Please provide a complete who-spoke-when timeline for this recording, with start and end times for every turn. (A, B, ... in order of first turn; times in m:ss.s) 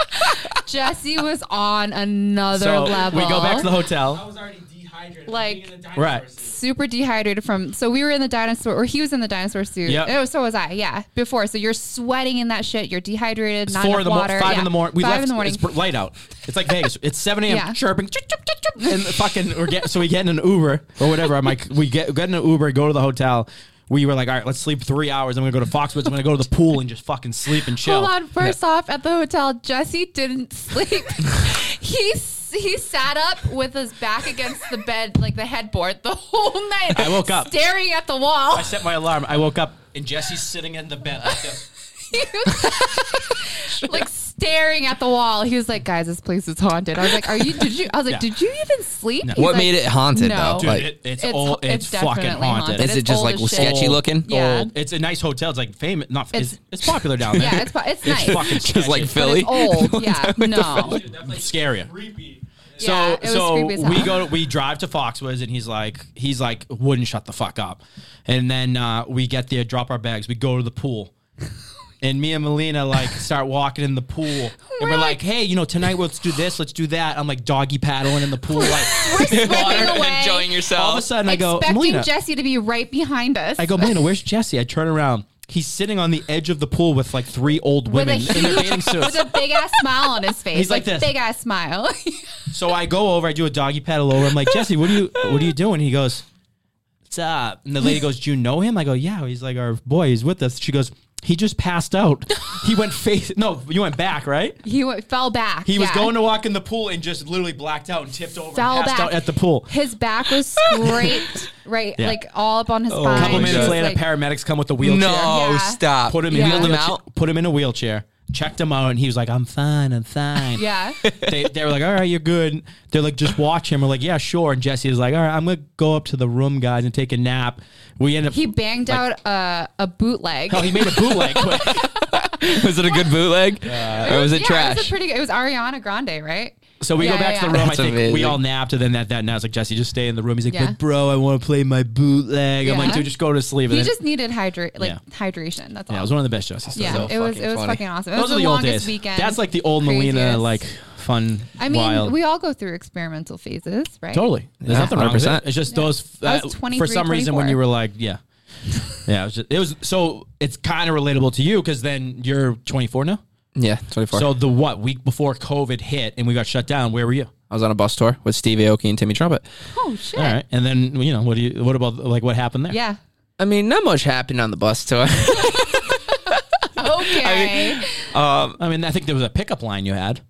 0:00.2-0:03.7 A
0:02.5-0:04.4 B
0:05.2-0:15.7 A
0:05.9-0:06.3 B
0:09.8-0:10.1 B
0:13.7-0:28.6 B
0:17.5-0:17.8 A
0:27.8-0:38.8 A
0:36.9-0:37.5 B
0:38.5-0:41.7 B
0:42.0-0:54.7 A
0:49.4-0:50.9 C
0:50.5-0:52.9 B
0:52.7-0:54.3 C
0:53.5-0:59.5 B
0:57.3-1:01.0 A
0:57.4-1:01.0 C
1:00.7-1:11.1 B
1:02.8-1:04.2 A
1:12.0-1:22.1 B
1:14.6-1:15.2 A
1:18.5-1:20.5 A
1:19.0-1:21.1 C
1:21.2-1:24.0 A
1:23.6-1:29.3 B
1:27.8-1:32.5 A
1:28.3-1:29.1 C
1:30.5-1:31.1 B
1:32.5-1:36.2 B
1:37.1-1:44.6 B
1:44.6-1:46.2 A
1:45.6-1:49.7 B
1:48.5-1:54.0 A
1:50.9-1:51.1 B
1:50.9-1:51.2 C
1:52.9-1:53.8 C
1:53.1-1:55.4 B
1:54.8-1:57.0 C
1:55.2-1:56.7 A
1:56.0-2:09.0 B
2:00.5-2:01.0 A
2:08.3-2:13.1 A
2:10.5-2:11.9 B
2:11.3-2:14.9 C
2:13.6-2:14.3 B
2:14.0-2:17.8 A
2:16.8-2:24.0 B
2:17.5-2:18.4 C
2:20.5-2:20.8 A
2:22.6-2:23.1 A
2:23.7-2:26.1 A
2:25.9-2:27.1 B
2:26.7-2:27.8 C
2:26.7-2:30.6 A
2:28.1-2:32.1 B
2:31.6-2:34.3 A
2:34.1-2:38.2 B
2:34.6-2:35.5 C
2:35.7-2:37.6 A
2:39.0-2:43.2 B
2:43.6-2:44.3 C
2:44.1-2:47.3 B
2:47.5-2:49.4 C
2:49.7-2:50.4 A
2:50.2-2:52.8 B
2:52.7-2:53.0 A
2:53.4-2:58.6 C
2:56.7-2:58.0 A
2:58.6-3:00.2 B